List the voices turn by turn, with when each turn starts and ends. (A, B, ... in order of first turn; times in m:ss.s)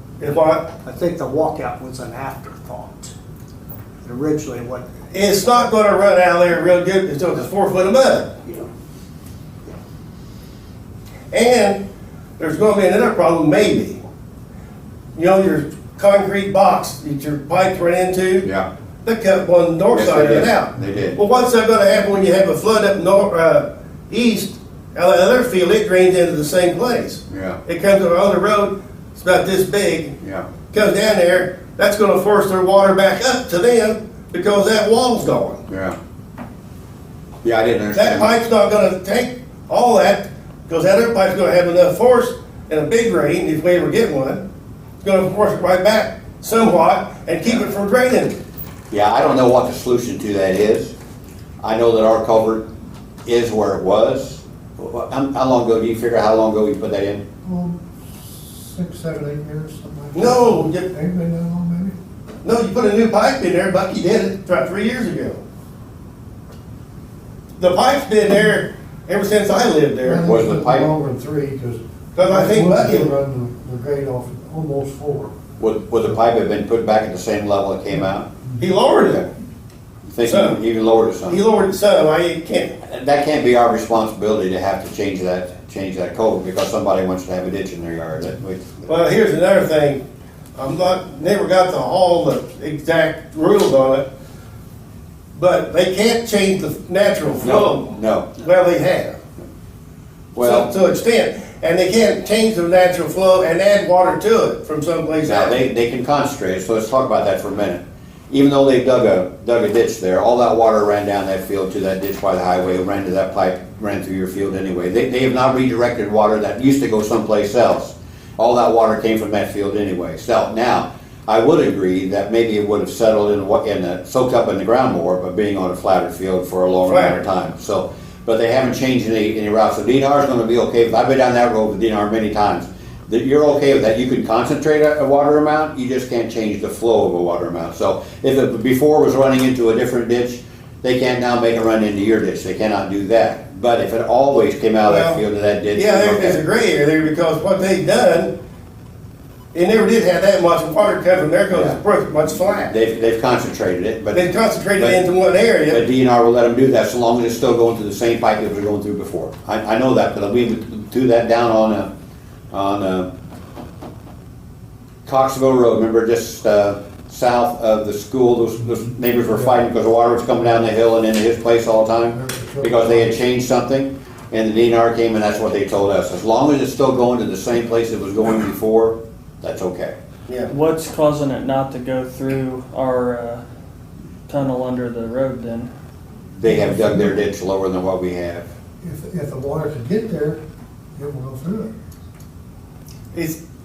0:00.2-0:00.7 A
0:00.8-0:03.1 B
0:04.0-0:04.9 B
0:05.1-0:08.3 A
0:11.3-0:11.8 A
0:12.4-0:14.0 A
0:15.1-0:18.5 A
0:19.0-0:30.2 A
0:19.9-0:21.2 C
0:27.3-0:27.6 C
0:30.2-0:30.5 C
0:30.7-0:35.6 A
0:35.7-0:36.0 C
0:37.4-0:38.3 C
0:37.9-0:44.4 A
0:45.0-0:48.4 A
0:48.9-0:50.9 C
0:51.6-0:52.7 C
0:53.2-0:57.2 C
0:57.4-1:02.0 D
1:00.1-1:00.9 A
1:02.4-1:05.4 A
1:07.6-1:10.2 A
1:10.0-1:15.3 D
1:10.2-1:10.9 C
1:12.1-1:13.1 A
1:15.6-1:18.3 C
1:18.6-1:19.3 A
1:20.1-1:21.4 C
1:20.3-1:20.6 A
1:21.3-1:22.7 A
1:22.8-1:28.9 C
1:28.9-1:30.0 A
1:30.6-1:34.0 A
1:35.3-1:39.2 A
1:37.4-1:38.3 C
1:40.3-1:40.7 C
1:40.4-1:45.6 A
1:45.2-2:26.4 C
2:06.8-2:07.2 A
2:24.8-2:25.2 A
2:25.7-2:28.3 A
2:29.5-2:32.7 A
2:31.5-2:31.8 C
2:32.6-2:35.0 C
2:34.1-2:35.8 A
2:35.7-2:41.9 C
2:42.5-2:43.1 C
2:45.0-3:00.0 C
2:52.1-2:53.2 D
3:00.5-3:03.4 E
3:04.3-3:05.7 E
3:06.4-3:08.4 C
3:06.4-3:07.2 D
3:08.8-3:10.4 D
3:11.0-3:11.7 D
3:13.1-3:13.4 A